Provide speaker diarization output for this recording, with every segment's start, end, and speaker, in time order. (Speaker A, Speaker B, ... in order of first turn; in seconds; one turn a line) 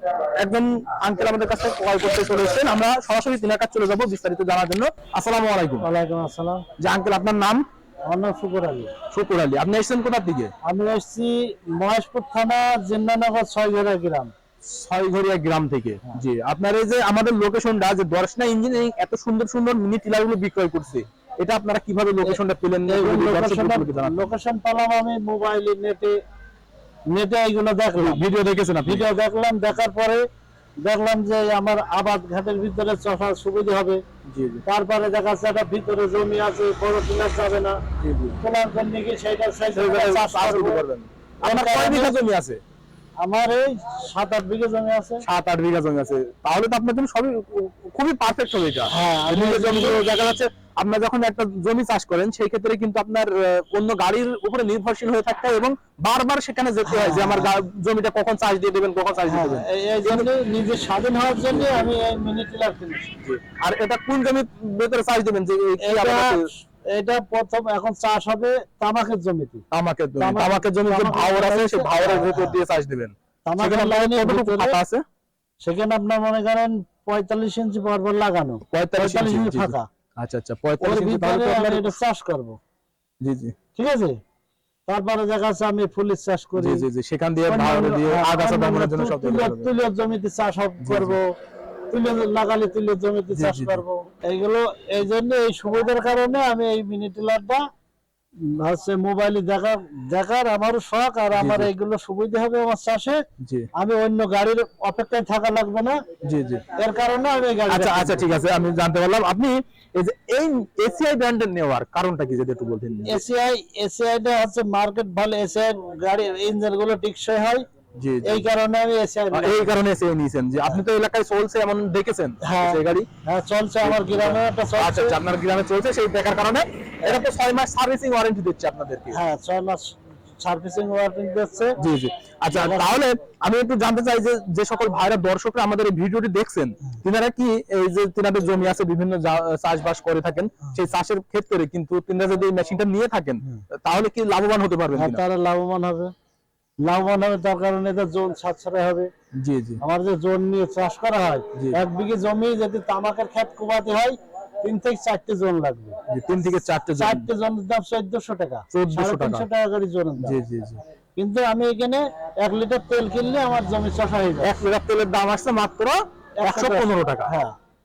Speaker A: 0.4-5.9
Speaker B: 5.8-6.6
Speaker A: 6.8-7.6
Speaker B: 8.1-8.9
Speaker A: 9.1-10.5
Speaker B: 10.6-14.3
Speaker A: 14.7-24.3
Speaker B: 22.2-26.2
Speaker B: 27.1-28.2
Speaker A: 27.9-29.1
Speaker B: 28.8-30.2
Speaker B: 30.8-34.0
Speaker A: 34.3-34.6
Speaker B: 34.6-37.8
Speaker A: 38.0-38.4
Speaker B: 38.4-40.8
Speaker A: 39.7-42.6
Speaker B: 41.4-42.2
Speaker B: 43.2-45.2
Speaker A: 45.2-60.3
Speaker B: 48.9-50.0
Speaker B: 56.8-57.5
Speaker B: 59.3-63.1
Speaker A: 61.5-61.9
Speaker A: 63.2-66.4
Speaker B: 65.8-69.6
Speaker A: 69.7-75.0
Speaker B: 70.2-72.6
Speaker B: 73.5-74.8
Speaker B: 75.6-79.8
Speaker A: 78.7-82.0
Speaker B: 80.8-82.6
Speaker A: 83.2-83.5
Speaker B: 83.8-84.1
Speaker B: 84.9-86.8
Speaker A: 86.6-89.7
Speaker B: 87.5-91.3
Speaker A: 90.8-91.2
Speaker B: 91.9-97.6
Speaker A: 93.3-93.8
Speaker B: 98.5-103.2
Speaker A: 101.3-101.7
Speaker A: 103.4-103.7
Speaker B: 103.8-106.0
Speaker A: 106.2-106.6
Speaker B: 106.7-108.3
Speaker A: 107.7-113.2
Speaker B: 113.0-117.6
Speaker A: 118.0-118.4
Speaker B: 118.2-119.8
Speaker A: 119.3-123.1
Speaker B: 122.4-125.2
Speaker A: 123.8-129.2
Speaker B: 129.1-131.8
Speaker A: 131.8-145.2
Speaker B: 132.5-133.0
Speaker B: 144.9-146.1
Speaker B: 146.8-149.1
Speaker A: 149.4-149.8
Speaker B: 149.8-160.4
Speaker A: 156.1-157.3
Speaker A: 158.7-159.4
Speaker A: 160.2-160.8
Speaker B: 161.2-164.6
Speaker A: 164.4-167.3
Speaker B: 166.4-167.5